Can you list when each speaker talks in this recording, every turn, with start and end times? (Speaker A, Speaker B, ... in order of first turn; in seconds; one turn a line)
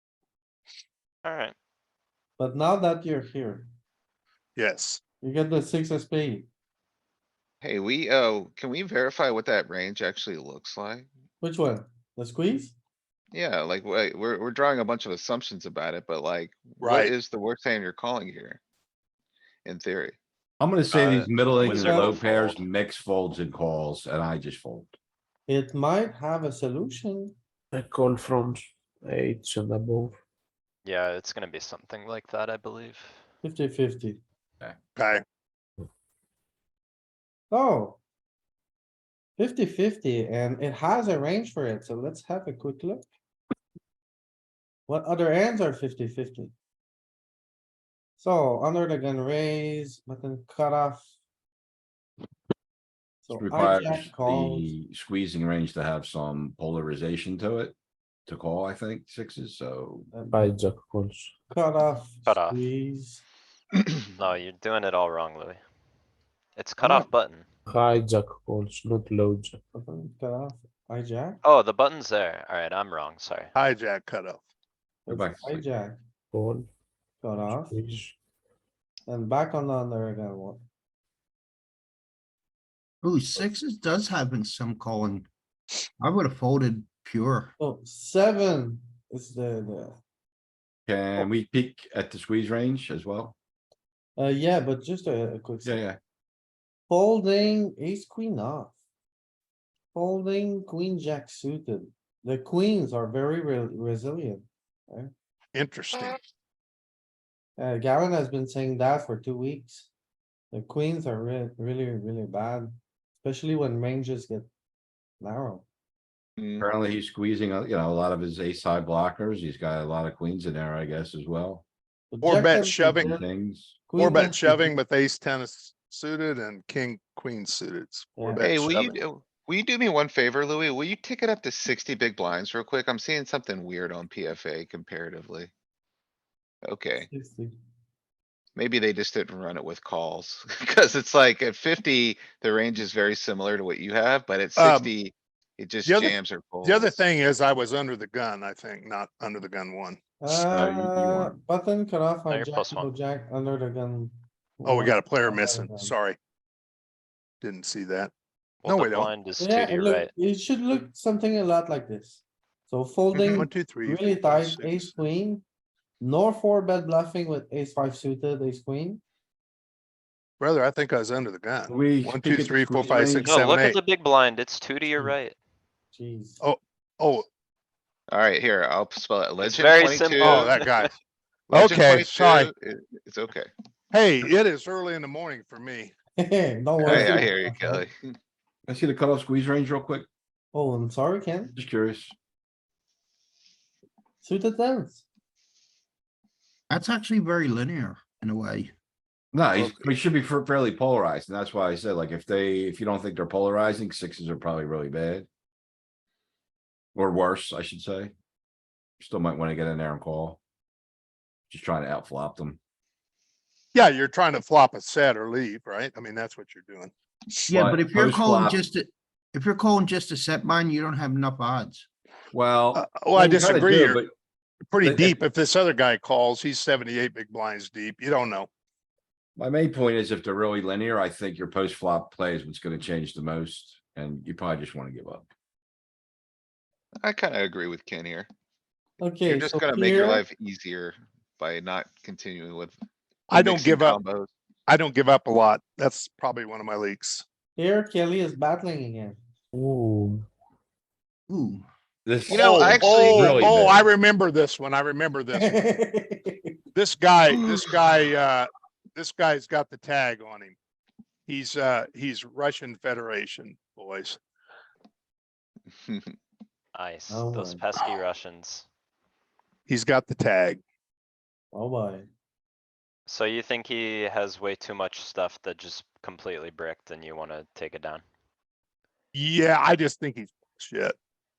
Speaker A: 1.2-1.6
Speaker B: 2.4-3.7
Speaker C: 4.6-5.0
Speaker B: 5.2-6.5
Speaker D: 7.6-11.1
Speaker B: 11.4-12.7
Speaker D: 13.3-18.6
Speaker C: 16.8-17.1
Speaker D: 19.6-20.2
Speaker E: 20.6-24.9
Speaker D: 20.9-21.3
Speaker A: 21.5-22.6
Speaker B: 21.7-22.2
Speaker B: 25.5-27.4
Speaker F: 27.7-30.2
Speaker A: 30.9-33.2
Speaker B: 33.4-34.2
Speaker C: 35.0-35.2
Speaker B: 37.5-38.0
Speaker B: 39.4-43.0
Speaker B: 44.9-46.5
Speaker B: 48.2-51.1
Speaker B: 53.2-54.7
Speaker E: 53.3-57.8
Speaker E: 58.3-60.1
Speaker B: 60.1-60.6
Speaker F: 60.3-61.3
Speaker B: 61.5-63.2
Speaker A: 62.3-62.6
Speaker A: 64.1-65.6
Speaker A: 66.6-67.5
Speaker F: 67.7-69.6
Speaker B: 69.7-71.4
Speaker A: 71.4-73.5
Speaker C: 73.5-74.4
Speaker B: 75.1-76.0
Speaker E: 75.1-75.7
Speaker F: 76.3-76.7
Speaker B: 77.2-77.8
Speaker F: 77.5-78.2
Speaker B: 79.1-80.6
Speaker G: 83.0-85.3
Speaker G: 86.0-87.5
Speaker B: 87.6-90.0
Speaker E: 90.9-93.3
Speaker B: 94.2-95.8
Speaker E: 95.6-96.0
Speaker B: 96.9-98.8
Speaker B: 99.9-105.1
Speaker C: 105.5-106.2
Speaker B: 107.6-109.9
Speaker B: 110.5-114.5
Speaker B: 115.2-115.7
Speaker D: 116.4-116.6
Speaker E: 116.6-121.6
Speaker B: 122.1-123.2
Speaker C: 122.2-123.2
Speaker E: 122.9-123.8
Speaker B: 123.9-124.7
Speaker C: 123.9-129.0
Speaker B: 128.2-128.4
Speaker D: 128.4-135.5
Speaker D: 136.6-137.1
Speaker B: 137.0-137.6
Speaker D: 138.6-147.0
Speaker C: 144.6-144.9
Speaker C: 145.8-150.0
Speaker B: 150.2-155.9
Speaker E: 150.3-151.3
Speaker A: 152.3-152.9
Speaker C: 154.7-156.2
Speaker C: 157.4-158.1
Speaker A: 158.6-160.1
Speaker C: 158.7-159.1
Speaker B: 159.4-165.4
Speaker C: 163.1-164.9
Speaker B: 166.0-169.0
Speaker C: 170.4-173.8
Speaker E: 171.7-173.3
Speaker A: 173.2-175.3
Speaker B: 175.9-176.4
Speaker C: 176.4-177.3
Speaker D: 178.1-180.6
Speaker A: 179.4-180.9
Speaker C: 180.2-180.9
Speaker C: 181.5-182.5
Speaker D: 181.5-183.5
Speaker C: 183.9-185.9
Speaker B: 186.2-187.9
Speaker D: 186.8-188.2
Speaker E: 186.9-187.2
Speaker E: 188.7-190.1
Speaker B: 190.5-191.6
Speaker E: 191.6-192.1
Speaker B: 194.2-195.0
Speaker G: 196.7-198.7
Speaker E: 199.3-205.3
Speaker D: 199.6-199.9
Speaker E: 206.9-208.1
Speaker E: 209.0-210.4
Speaker E: 211.5-212.6
Speaker C: 213.7-216.9
Speaker G: 217.5-221.9
Speaker E: 217.5-218.6
Speaker E: 222.3-224.1
Speaker C: 222.8-224.0
Speaker C: 224.7-228.5
Speaker E: 224.8-225.2
Speaker E: 229.4-235.3
Speaker D: 237.0-238.3
Speaker B: 239.0-240.2
Speaker D: 239.2-242.8
Speaker C: 243.3-244.0
Speaker D: 243.3-244.3
Speaker C: 244.7-247.2
Speaker B: 247.6-249.2
Speaker F: 249.5-250.3
Speaker G: 251.3-251.7
Speaker E: 252.1-253.9
Speaker C: 252.3-255.6
Speaker D: 252.3-253.5
Speaker B: 255.4-256.6
Speaker C: 256.8-260.6
Speaker D: 257.3-257.6
Speaker C: 261.3-264.2
Speaker D: 265.8-266.1
Speaker A: 266.8-268.7
Speaker B: 267.1-267.7
Speaker C: 269.7-270.6
Speaker B: 271.5-272.1
Speaker A: 273.1-278.0
Speaker C: 279.1-281.0